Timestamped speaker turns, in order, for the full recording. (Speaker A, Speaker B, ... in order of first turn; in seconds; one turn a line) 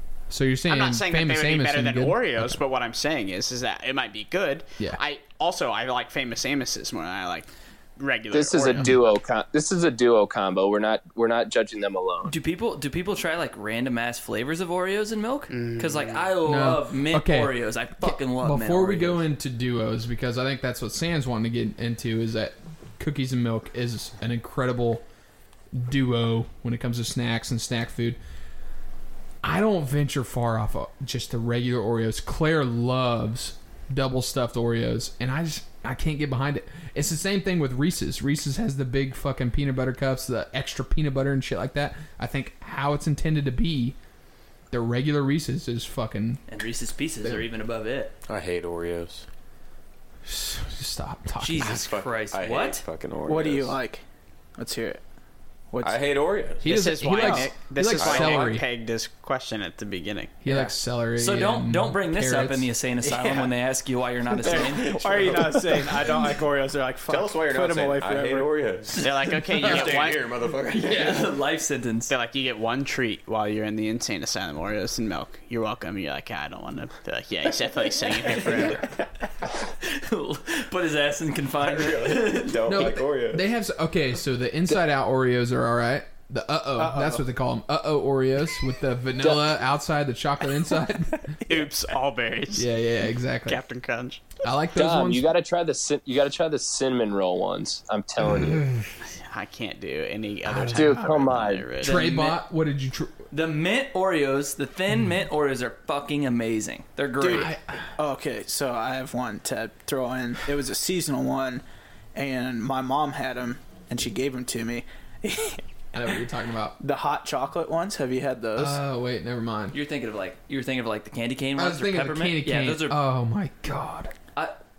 Speaker A: 0.3-2.6
Speaker B: 0.7-8.9
Speaker C: 8.3-12.3
Speaker D: 12.2-19.2
Speaker B: 15.5-16.3
Speaker A: 16.4-25.0
Speaker A: 25.7-28.2
Speaker A: 29.4-44.0
Speaker A: 44.7-46.4
Speaker D: 46.5-48.1
Speaker E: 48.3-49.2
Speaker A: 50.2-51.9
Speaker D: 51.4-52.8
Speaker E: 51.6-53.8
Speaker F: 53.2-54.0
Speaker F: 54.6-55.0
Speaker F: 55.7-56.1
Speaker E: 55.8-56.7
Speaker A: 56.6-58.6
Speaker B: 56.6-60.5
Speaker F: 57.1-57.5
Speaker E: 58.0-58.4
Speaker A: 60.4-62.7
Speaker D: 61.1-65.5
Speaker F: 63.0-63.5
Speaker F: 64.4-68.7
Speaker E: 64.8-66.4
Speaker E: 67.1-71.3
Speaker B: 69.0-70.3
Speaker D: 70.7-72.1
Speaker B: 72.1-78.8
Speaker D: 79.8-82.8
Speaker E: 81.6-83.4
Speaker A: 82.7-91.4
Speaker F: 86.8-87.2
Speaker B: 91.5-92.7
Speaker A: 92.5-93.6
Speaker B: 93.5-94.2
Speaker A: 94.4-95.3
Speaker C: 94.7-98.7
Speaker A: 98.2-98.8
Speaker B: 99.1-102.3
Speaker A: 100.5-100.9
Speaker C: 100.7-101.6
Speaker A: 101.8-103.2
Speaker D: 103.3-107.5
Speaker F: 107.2-111.6
Speaker A: 107.2-107.9
Speaker F: 112.1-115.6
Speaker A: 115.9-116.8
Speaker F: 116.8-118.8
Speaker A: 118.5-119.8
Speaker D: 119.7-123.0
Speaker A: 121.5-124.1